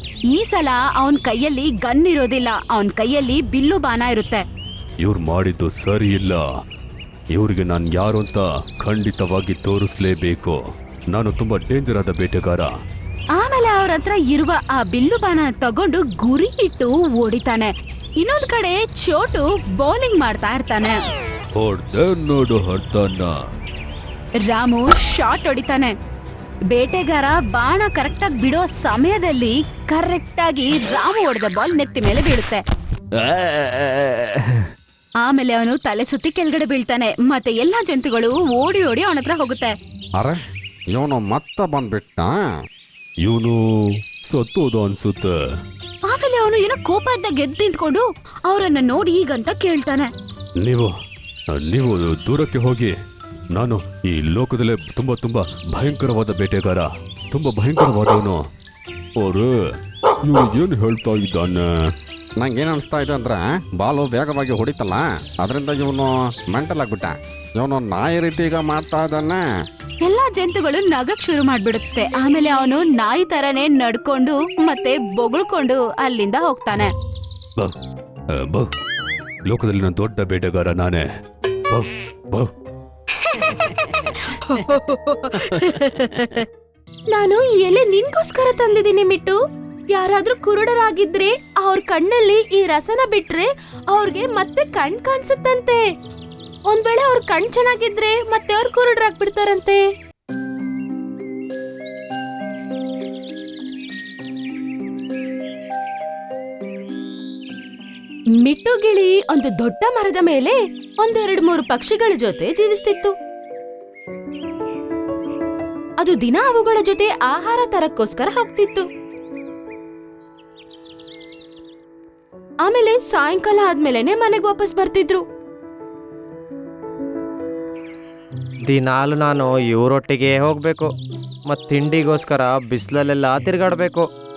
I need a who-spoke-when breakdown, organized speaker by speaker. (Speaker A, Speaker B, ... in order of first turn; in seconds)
Speaker A: 0.3-4.4, 13.4-21.0, 24.5-25.9, 26.7-32.6, 35.2-39.7, 46.1-50.1, 70.0-76.9, 83.3-86.4
Speaker B: 5.0-6.4, 7.3-10.6, 11.1-12.7, 21.6-23.3, 33.2-34.4, 43.2-43.6, 44.3-45.3, 50.6-50.9, 51.5-52.9, 53.5-58.4, 59.2-59.5, 60.2-61.6, 78.3-78.7, 79.5-81.0, 81.7-82.5
Speaker C: 40.9-42.3, 62.4-69.4
Speaker D: 87.1-89.4, 89.9-95.8, 96.7-99.8, 108.4-113.1, 116.0-118.9, 122.6-125.2
Speaker E: 128.7-130.9, 131.5-134.1